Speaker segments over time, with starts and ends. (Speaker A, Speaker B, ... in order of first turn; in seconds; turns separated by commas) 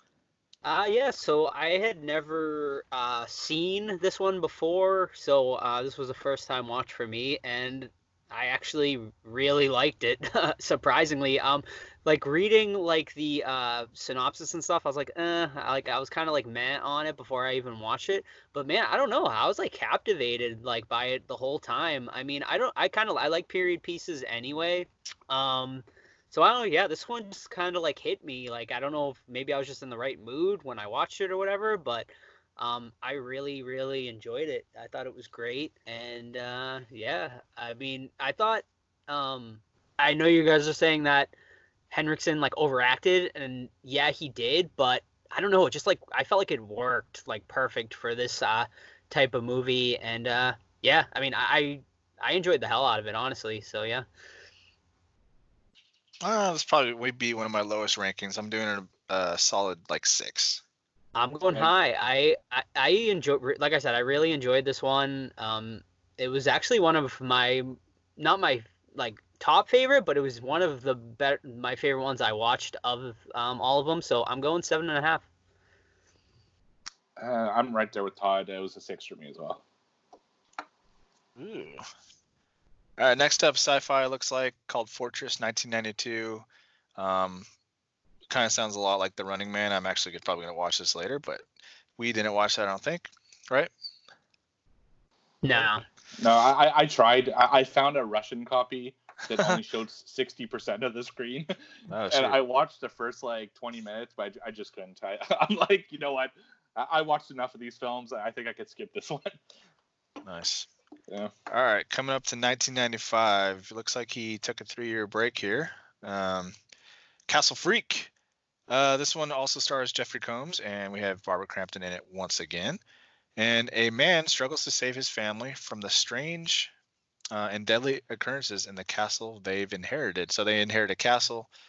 Speaker A: 0.6-41.3, Speaker A: 41.9-54.0, Speaker B: 56.2-60.6, Speaker A: 61.1-75.2, Speaker C: 77.2-79.6, Speaker B: 81.3-81.8, Speaker B: 83.0-87.5, Speaker B: 88.3-91.4, Speaker B: 92.0-93.7, Speaker A: 95.4-95.8, Speaker C: 96.2-101.5, Speaker B: 101.9-102.4, Speaker C: 102.1-109.4, Speaker B: 110.2-110.7, Speaker B: 111.5-116.5, Speaker B: 117.3-118.1, Speaker B: 118.7-122.8, Speaker B: 123.3-126.7, Speaker B: 127.3-131.5